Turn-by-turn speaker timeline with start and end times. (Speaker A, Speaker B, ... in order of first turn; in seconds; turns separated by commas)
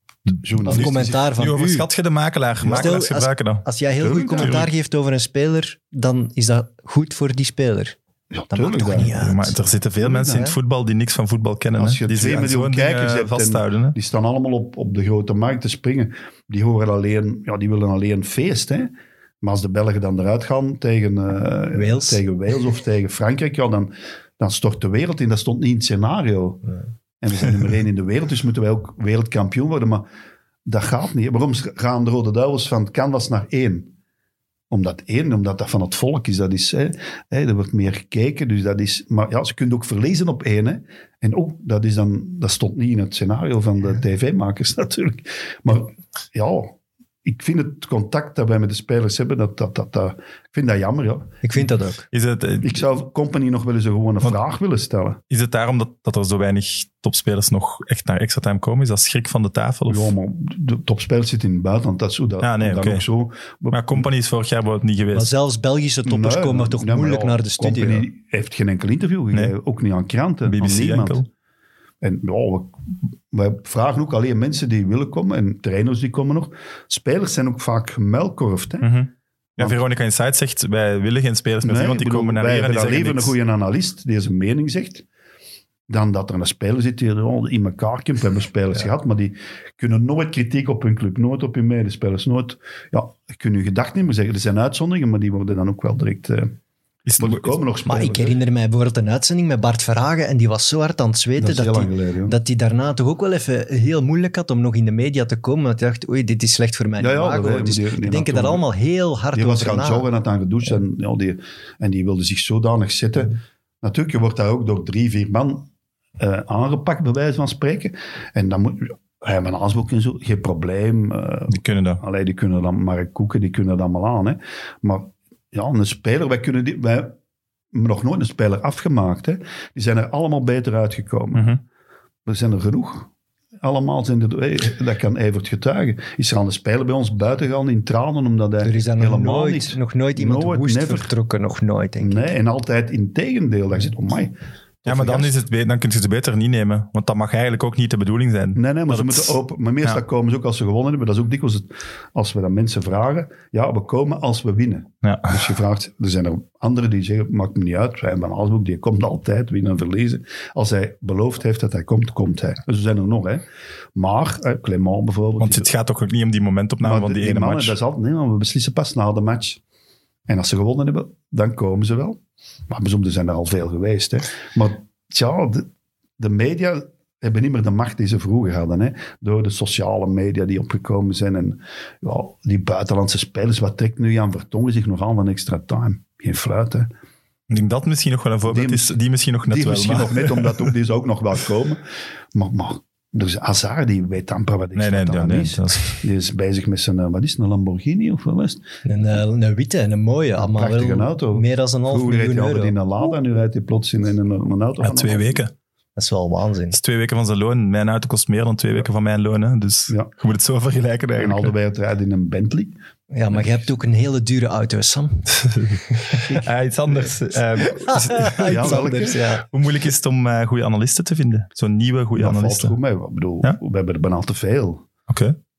Speaker A: 0.4-1.2, Speaker B: 0.6-3.7, Speaker C: 0.6-1.9, Speaker C: 2.6-8.0, Speaker A: 4.0-4.7, Speaker B: 4.4-4.7, Speaker A: 8.3-9.2, Speaker C: 8.5-9.6, Speaker B: 9.0-13.9, Speaker A: 10.0-10.5, Speaker A: 11.8-26.6, Speaker C: 21.7-22.2, Speaker A: 27.2-30.0, Speaker A: 30.6-33.9, Speaker A: 34.7-51.6, Speaker C: 51.4-52.1, Speaker B: 52.1-52.8, Speaker A: 52.6-55.2, Speaker B: 55.3-60.1, Speaker A: 59.9-64.0, Speaker B: 62.4-63.0, Speaker B: 63.7-65.3, Speaker C: 65.1-68.1, Speaker A: 66.0-71.2, Speaker B: 70.5-71.3, Speaker A: 72.0-78.9, Speaker B: 78.8-83.3, Speaker A: 81.6-85.0, Speaker A: 85.9-96.5, Speaker B: 97.0-97.6, Speaker A: 97.2-98.4, Speaker C: 97.8-110.0, Speaker A: 101.4-102.3, Speaker A: 107.0-108.6, Speaker A: 109.3-127.2, Speaker B: 121.5-122.0, Speaker A: 127.7-131.5, Speaker B: 131.3-131.6, Speaker A: 132.2-133.1, Speaker A: 133.6-141.1, Speaker C: 138.6-142.3, Speaker A: 142.0-145.3, Speaker B: 144.8-150.0, Speaker A: 148.5-165.7, Speaker B: 155.0-155.4, Speaker B: 165.4-167.8, Speaker A: 166.8-169.6, Speaker A: 170.3-186.9, Speaker B: 187.5-190.6, Speaker A: 188.5-188.9, Speaker A: 189.4-191.8, Speaker A: 192.3-198.7, Speaker B: 194.7-196.0, Speaker C: 198.8-202.8, Speaker A: 200.4-205.4, Speaker B: 204.8-205.5, Speaker C: 205.9-206.8, Speaker B: 206.7-211.5, Speaker A: 211.2-212.7, Speaker C: 213.1-215.4, Speaker B: 215.3-222.8, Speaker A: 216.2-217.1, Speaker C: 217.6-219.4, Speaker A: 218.4-219.2, Speaker A: 222.1-224.8, Speaker B: 225.1-225.3